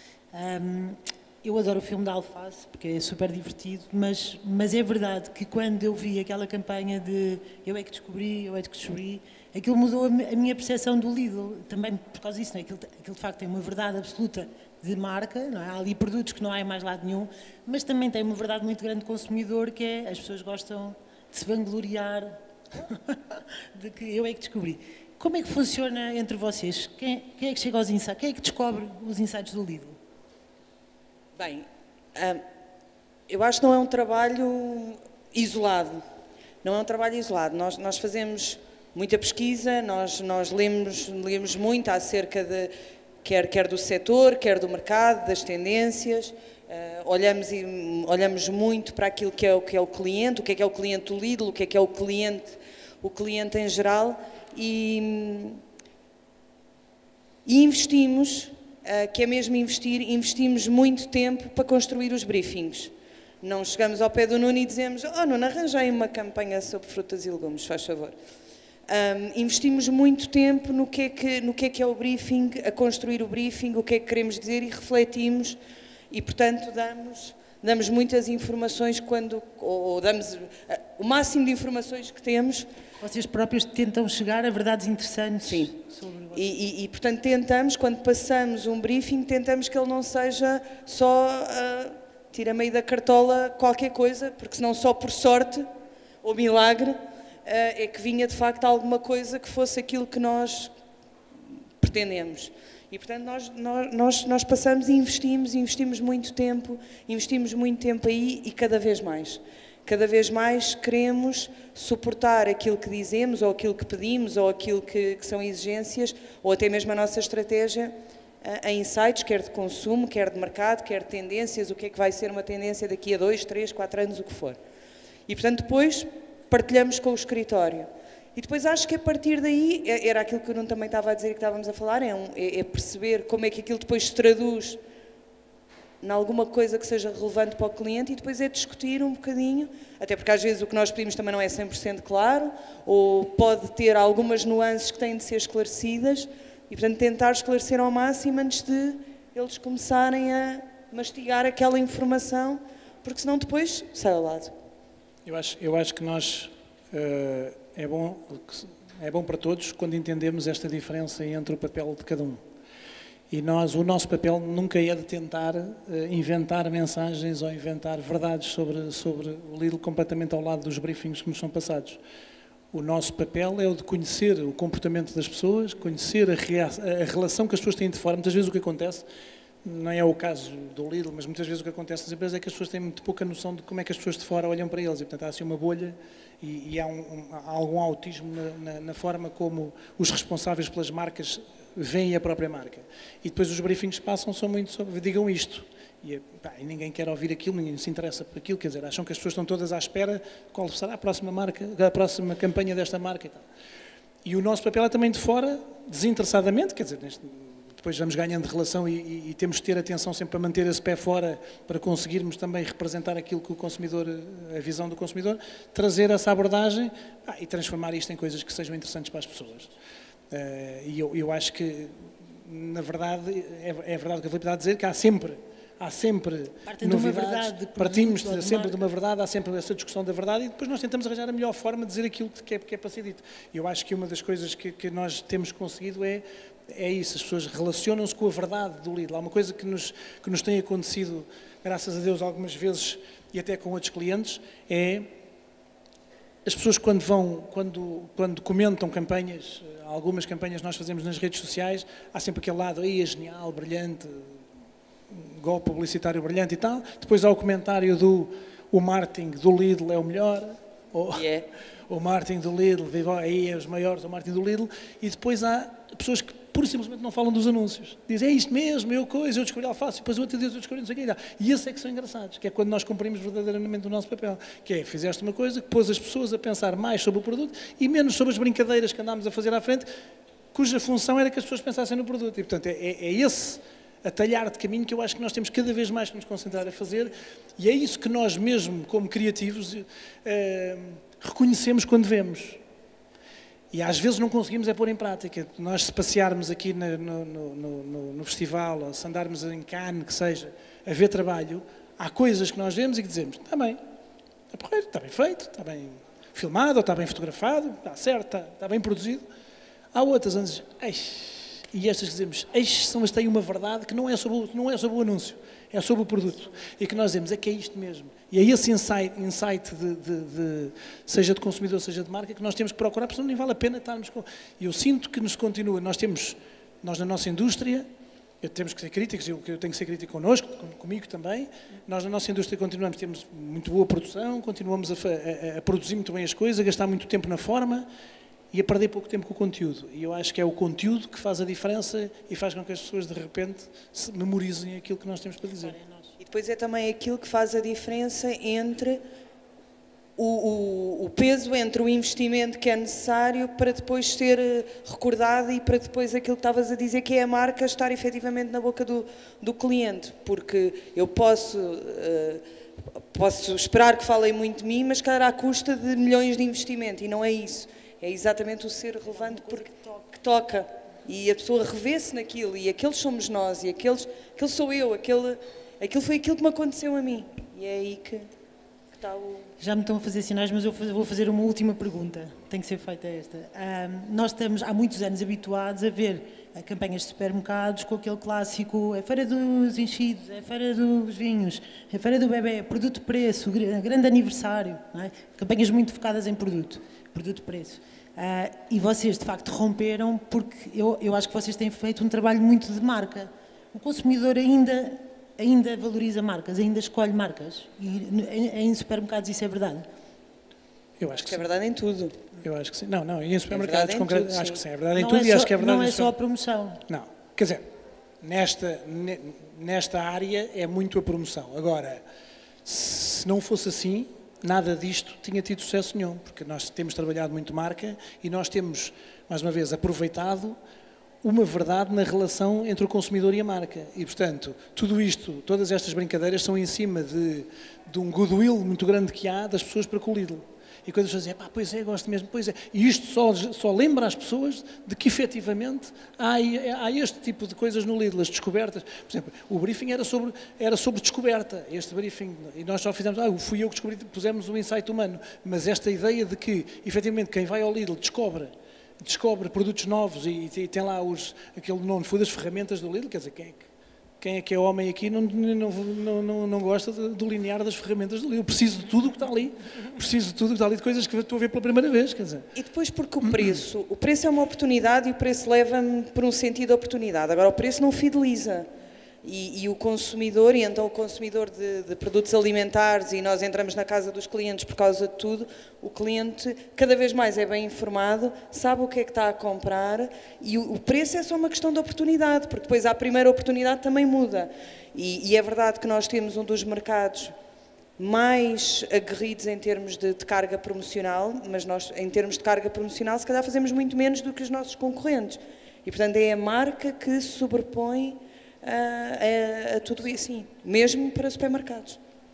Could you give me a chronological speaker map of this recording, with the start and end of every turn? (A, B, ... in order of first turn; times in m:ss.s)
0:00.3-0:30.0 A
0:31.4-0:32.4 B
0:33.3-0:36.0 B
0:36.6-0:42.7 B
0:43.2-0:55.6 B
0:57.5-1:08.2 B
1:08.9-1:15.6 B
1:16.1-1:22.7 B
1:23.0-1:26.4 A
1:25.5-1:25.7 B
1:26.3-1:35.7 B
1:36.2-1:40.7 B
1:41.8-2:04.6 B
2:05.3-2:14.8 B
2:16.0-2:34.5 B
2:35.2-2:42.4 C
2:43.3-2:52.0 C
2:52.7-2:59.0 C
2:59.6-3:23.4 C
3:24.2-3:39.7 C
3:40.3-4:05.1 C
3:46.7-3:48.8 A
4:06.4-4:14.4 C
4:15.1-4:21.2 C
4:21.2-4:21.5 B
4:21.9-4:39.9 C
4:40.5-4:52.6 C
4:53.7-5:03.8 C
5:04.5-5:09.2 C
5:09.9-5:27.9 C
5:28.4-5:37.9 C
5:38.5-5:45.8 C
5:45.6-5:46.1 A
5:46.2-5:49.0 B
5:50.2-6:02.4 B
6:03.1-6:18.3 B
6:09.2-6:09.8 A
6:18.9-6:19.5 B
6:19.6-6:49.9 A
6:51.0-6:51.4 C
6:51.1-6:52.2 B
6:52.4-6:56.1 C
6:53.5-6:54.6 B
6:55.0-6:56.8 A
6:56.9-6:57.7 C
6:58.2-7:02.0 C
7:02.6-7:10.6 C
7:11.2-7:43.7 C
7:44.2-7:52.5 C
7:52.6-7:58.7 B
7:53.2-7:53.6 C
7:59.2-8:17.3 B
8:18.0-8:32.0 B